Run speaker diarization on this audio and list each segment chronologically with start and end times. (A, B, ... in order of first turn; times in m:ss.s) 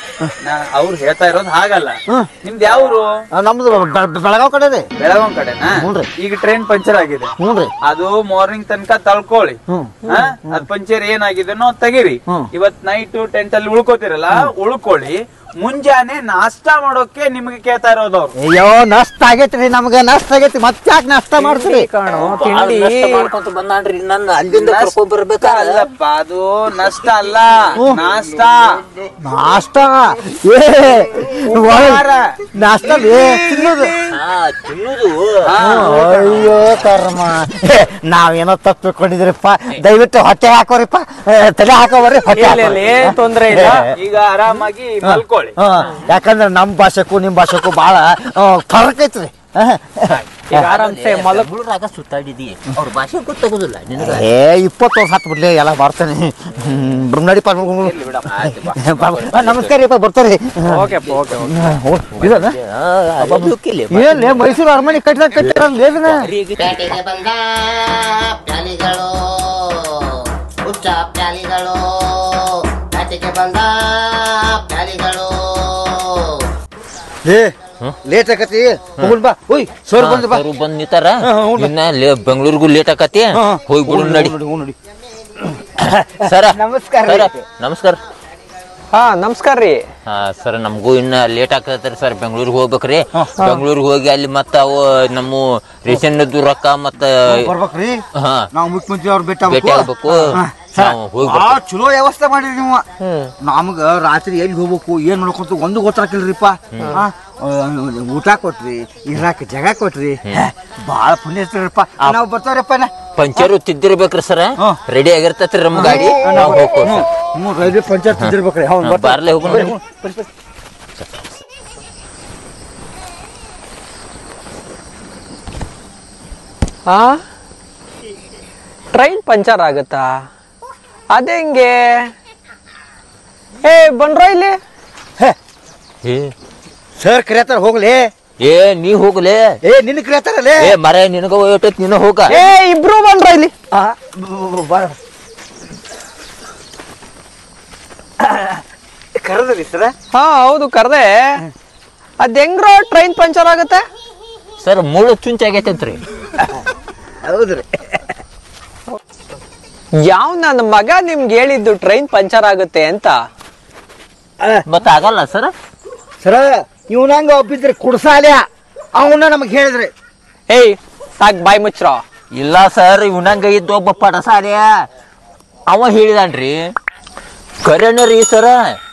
0:00.4-0:03.0 A
0:03.3-0:04.9 B
0:05.0-0:07.3 A
0:05.7-0:06.1 B
0:07.4-0:07.7 B
0:07.9-0:18.3 A
0:09.7-0:10.0 B
0:18.4-0:21.9 B
0:21.4-0:23.3 C
0:22.2-0:25.9 D
0:24.5-0:28.7 A
0:29.2-0:32.0 B
0:31.5-0:32.3 A
0:32.6-0:33.9 B
0:33.0-0:34.1 A
0:34.1-0:35.9 D
0:35.5-0:36.5 A
0:35.6-0:43.9 B
0:36.4-0:36.8 D
0:42.3-0:43.9 C
0:43.8-0:45.6 A
0:45.0-0:50.2 B
0:50.1-0:54.3 D
0:50.5-0:51.5 C
0:54.0-0:57.9 B
0:57.8-0:59.7 D
0:58.7-1:00.9 B
1:00.7-1:01.5 C
1:01.1-1:04.5 D
1:01.4-1:02.6 B
1:03.2-1:06.3 B
1:05.5-1:07.1 D
1:17.2-1:17.5 B
1:18.0-1:20.4 B
1:20.0-1:24.3 D
1:21.2-1:21.7 B
1:23.3-1:24.8 B
1:25.6-1:27.4 B
1:26.2-1:28.0 D
1:28.9-1:29.8 C
1:30.1-1:37.5 D
1:37.3-1:38.0 B
1:38.2-1:38.5 D
1:38.5-1:42.8 B
1:39.4-1:41.6 D
1:43.0-1:43.3 C
1:43.4-1:53.5 B
1:46.7-1:47.0 D
1:53.2-1:57.1 D
1:55.7-2:00.2 B
1:58.2-1:59.7 D
2:01.0-2:01.2 D
2:06.9-2:07.2 C
2:08.9-2:10.2 C
2:11.1-2:12.1 C
2:13.6-2:14.6 C
2:16.0-2:16.3 D
2:17.0-2:18.1 B
2:18.4-2:19.4 D
2:19.6-2:20.7 B
2:20.6-2:22.3 D
2:22.3-2:23.5 C
2:23.7-2:24.9 B
2:28.2-2:28.6 B
2:29.2-2:29.9 B
2:30.1-2:31.4 C
2:32.2-2:33.8 C
2:34.6-2:36.0 D
2:37.2-2:38.1 B
2:40.0-2:43.2 C
2:44.7-2:45.5 D
2:46.2-2:48.4 B
2:49.0-2:49.9 B
2:50.5-2:52.0 C
2:52.3-2:54.7 D
2:55.7-2:56.7 D
2:57.6-2:58.6 D